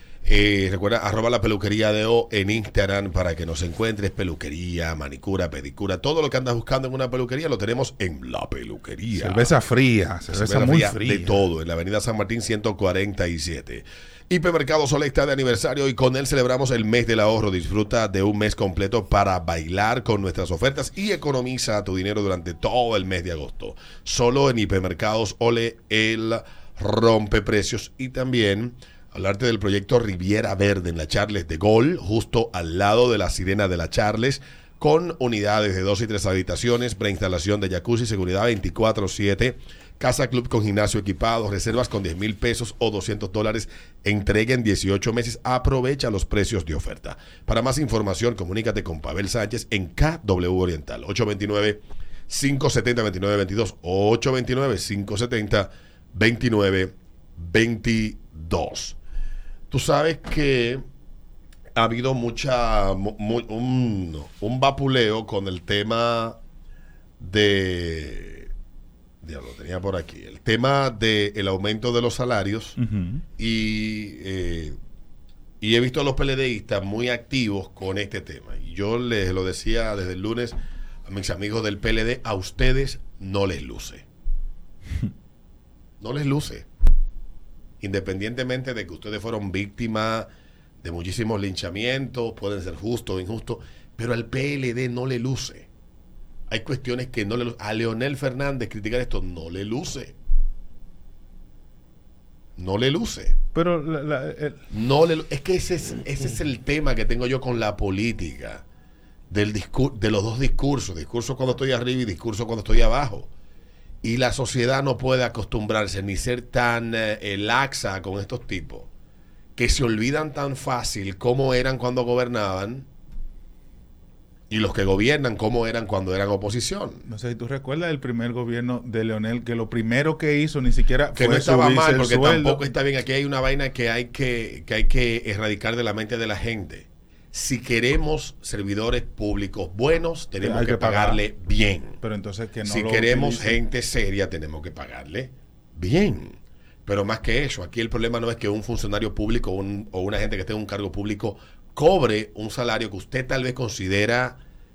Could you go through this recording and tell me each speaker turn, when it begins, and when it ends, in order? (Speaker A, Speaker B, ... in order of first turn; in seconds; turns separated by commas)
Speaker A: 0.2-9.6, Speaker B: 9.1-11.4, Speaker A: 10.3-59.0, Speaker A: 59.7-60.8, Speaker A: 61.8-66.4, Speaker A: 67.2-68.5, Speaker A: 69.2-72.8, Speaker B: 72.8-73.2, Speaker A: 73.4-74.8, Speaker A: 75.6-80.5, Speaker A: 81.1-84.0, Speaker A: 86.0-86.7, Speaker A: 87.8-90.3, Speaker A: 90.8-95.7, Speaker A: 96.5-100.2, Speaker A: 102.6-103.4, Speaker B: 103.5-104.6, Speaker A: 104.7-108.6, Speaker A: 109.3-113.3, Speaker A: 114.0-118.9, Speaker A: 119.5-122.8, Speaker A: 124.5-127.0, Speaker B: 127.0-132.7, Speaker A: 131.1-142.0, Speaker B: 140.4-141.2, Speaker B: 142.0-143.6, Speaker A: 142.6-154.4